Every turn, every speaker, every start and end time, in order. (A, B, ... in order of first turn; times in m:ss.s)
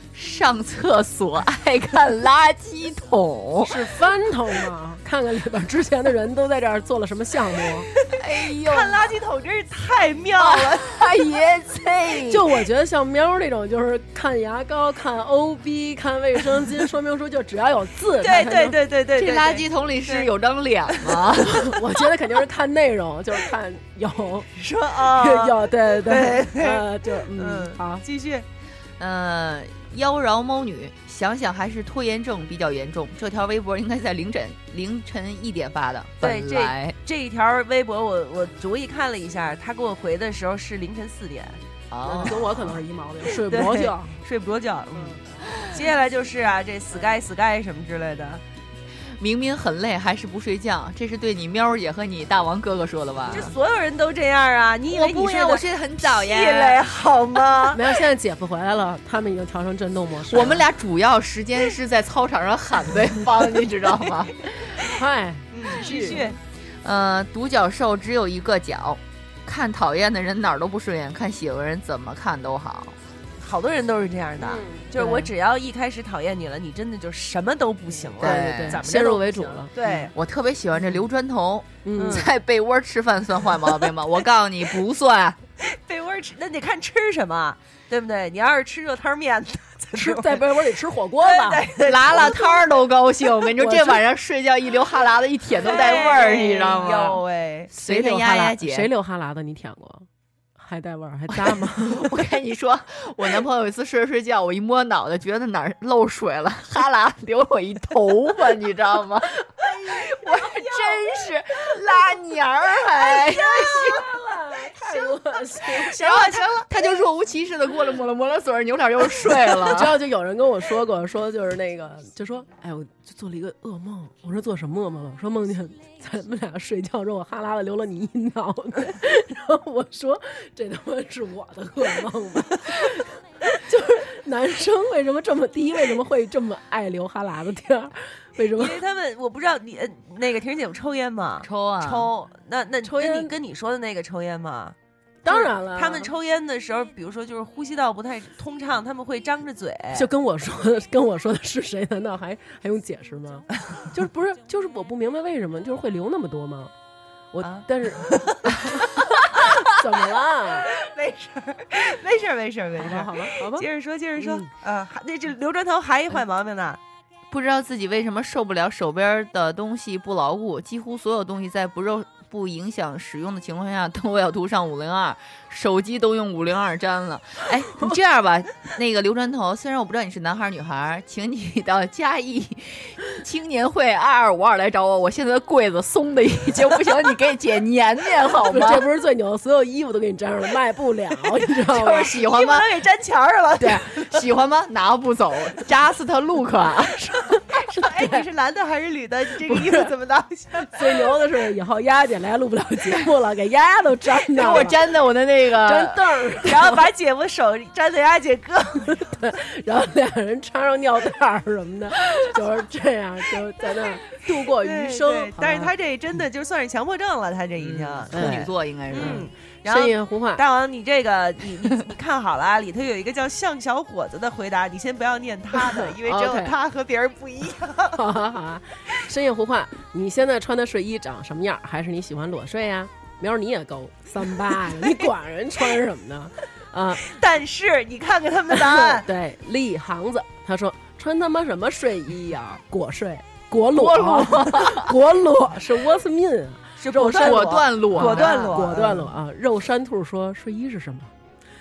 0:00.1-0:03.8 A
0:03.6-0:07.9 B
0:07.9-0:11.0 C
0:08.2-0:09.1 A
0:10.4-0:12.5 A
0:12.3-0:18.8 B
0:18.2-0:20.3 C
0:19.2-0:21.7 A
0:20.9-0:21.2 C
0:21.4-0:28.0 B
0:24.6-0:28.4 C
0:29.0-0:37.0 A
0:36.2-0:41.6 C
0:41.9-0:42.4 A
0:42.0-0:44.1 B
0:42.2-0:42.7 C
0:43.2-0:48.4 C
0:49.2-0:53.5 A
0:53.3-0:57.9 C
0:54.9-0:56.8 A
0:57.7-1:00.6 B
1:00.3-1:04.7 A
1:04.8-1:06.2 B
1:05.5-1:06.4 C
1:05.9-1:06.2 A
1:06.8-1:13.0 A
1:13.4-1:20.1 C
1:14.4-1:15.3 B
1:18.2-1:18.8 A
1:18.2-1:19.7 B
1:20.1-1:25.4 A
1:21.8-1:22.3 B
1:22.0-1:22.3 C
1:23.6-1:23.9 C
1:25.6-1:30.6 C
1:29.9-1:31.7 B
1:31.2-1:32.6 C
1:31.8-1:38.9 A
1:33.6-1:34.0 B
1:35.6-1:37.7 C
1:35.7-1:36.7 B
1:37.7-1:40.1 B
1:40.6-1:42.2 B
1:41.4-1:54.0 A
1:49.6-1:50.8 B
1:53.0-1:56.0 B
1:55.9-2:00.0 A
1:55.9-1:56.7 C
1:59.4-2:18.8 B
2:18.5-2:24.8 C
2:21.4-2:22.1 A
2:22.8-2:23.3 B
2:25.2-2:26.1 B
2:25.3-2:30.1 C
2:29.9-2:36.7 B
2:37.3-2:40.7 B
2:37.4-2:39.6 C
2:40.7-2:46.8 C
2:42.8-2:43.7 B
2:44.2-2:44.5 B
2:47.3-3:08.8 A
3:08.5-3:12.1 B
3:11.7-3:12.7 A
3:12.0-3:14.2 C
3:13.6-3:17.1 A
3:17.1-3:18.2 B
3:17.5-3:21.1 C
3:19.4-3:19.9 B
3:20.6-3:24.8 B
3:24.4-3:26.0 A
3:25.6-3:26.8 B
3:26.4-3:29.0 C
3:28.9-3:35.7 B
3:34.5-3:48.0 C
3:37.6-3:39.3 A
3:38.1-3:40.4 B
3:45.5-3:46.5 B
3:47.9-3:57.1 B
3:54.6-3:54.9 C
3:57.0-3:59.1 C
3:58.5-4:11.1 B
4:03.7-4:04.9 A
4:06.8-4:09.0 C
4:07.0-4:09.0 A